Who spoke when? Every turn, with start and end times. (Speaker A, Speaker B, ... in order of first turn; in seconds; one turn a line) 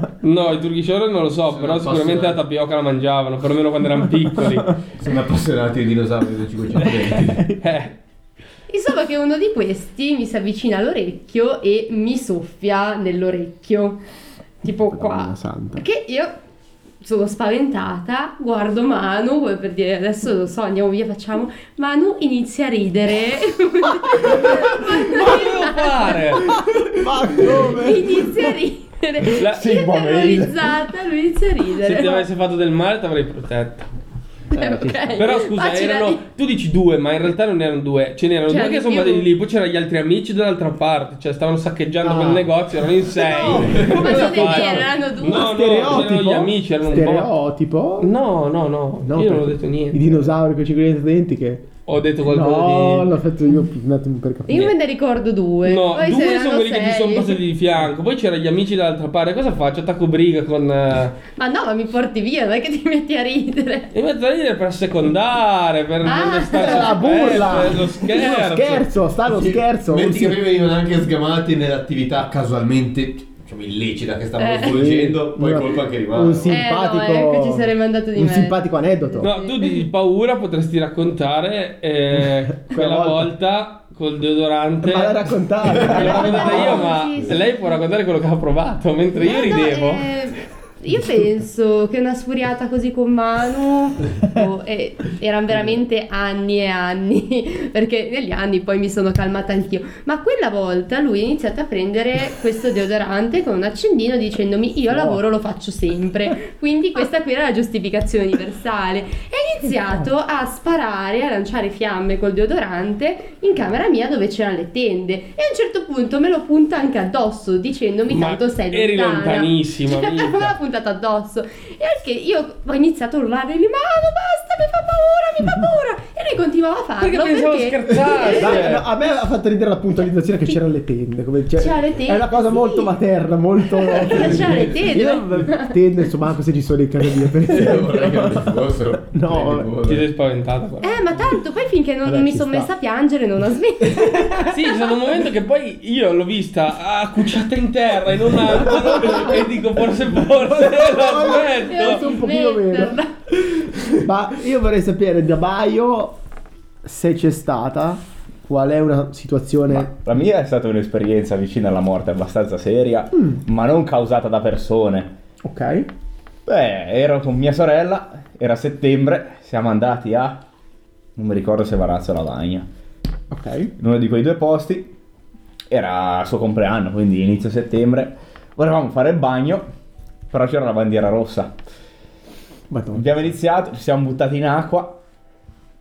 Speaker A: 0.2-4.8
Speaker B: 1.5-2.4
Speaker B: 4.9-7.5
Speaker C: 7.3-7.5
Speaker A: 7.6-7.9
Speaker D: 8.7-14.0
Speaker D: 14.6-16.4
Speaker C: 14.9-15.8
Speaker D: 17.0-26.5
Speaker A: 24.3-26.6
Speaker C: 26.5-28.6
Speaker D: 27.4-32.2
Speaker A: 29.4-29.8
Speaker E: 29.6-30.6
Speaker A: 31.8-33.9
Speaker C: 34.5-35.2
Speaker D: 34.5-36.2
Speaker A: 35.2-47.3
Speaker D: 38.5-39.3
Speaker C: 42.0-42.5
Speaker C: 43.3-48.1
Speaker D: 43.4-45.6
Speaker B: 43.4-44.6
Speaker A: 48.0-50.2
Speaker C: 49.0-51.6
Speaker A: 51.9-53.1
Speaker C: 52.2-54.7
Speaker D: 54.5-57.4
Speaker A: 55.6-61.2
Speaker D: 61.4-63.9
Speaker A: 63.9-68.9
Speaker D: 66.0-67.6
Speaker C: 66.6-70.4
Speaker B: 69.2-76.6
Speaker D: 74.4-74.8
Speaker C: 74.7-79.3
Speaker D: 76.5-79.8
Speaker A: 79.2-90.1
Speaker C: 82.6-83.3
Speaker C: 84.8-86.9
Speaker B: 85.8-86.0
Speaker D: 85.8-87.6
Speaker D: 89.2-128.7
Speaker C: 104.9-105.2
Speaker A: 118.1-120.5
Speaker A: 127.0-128.9
Speaker C: 128.3-139.7
Speaker D: 131.6-132.9
Speaker D: 133.7-135.8
Speaker B: 134.1-134.9
Speaker B: 137.2-140.1
Speaker A: 139.8-141.1
Speaker D: 140.8-144.6
Speaker C: 142.1-142.7
Speaker A: 144.5-152.0
Speaker C: 148.6-149.4
Speaker C: 150.4-153.0
Speaker D: 151.5-153.1
Speaker C: 153.9-156.2
Speaker C: 156.8-159.9
Speaker E: 159.7-165.1
Speaker C: 165.4-165.9
Speaker E: 166.4-170.4
Speaker E: 171.2-172.7
Speaker C: 173.3-173.7
Speaker E: 173.8-174.9
Speaker E: 175.7-179.7
Speaker E: 180.3-181.6
Speaker C: 182.7-183.3
Speaker E: 182.9-185.0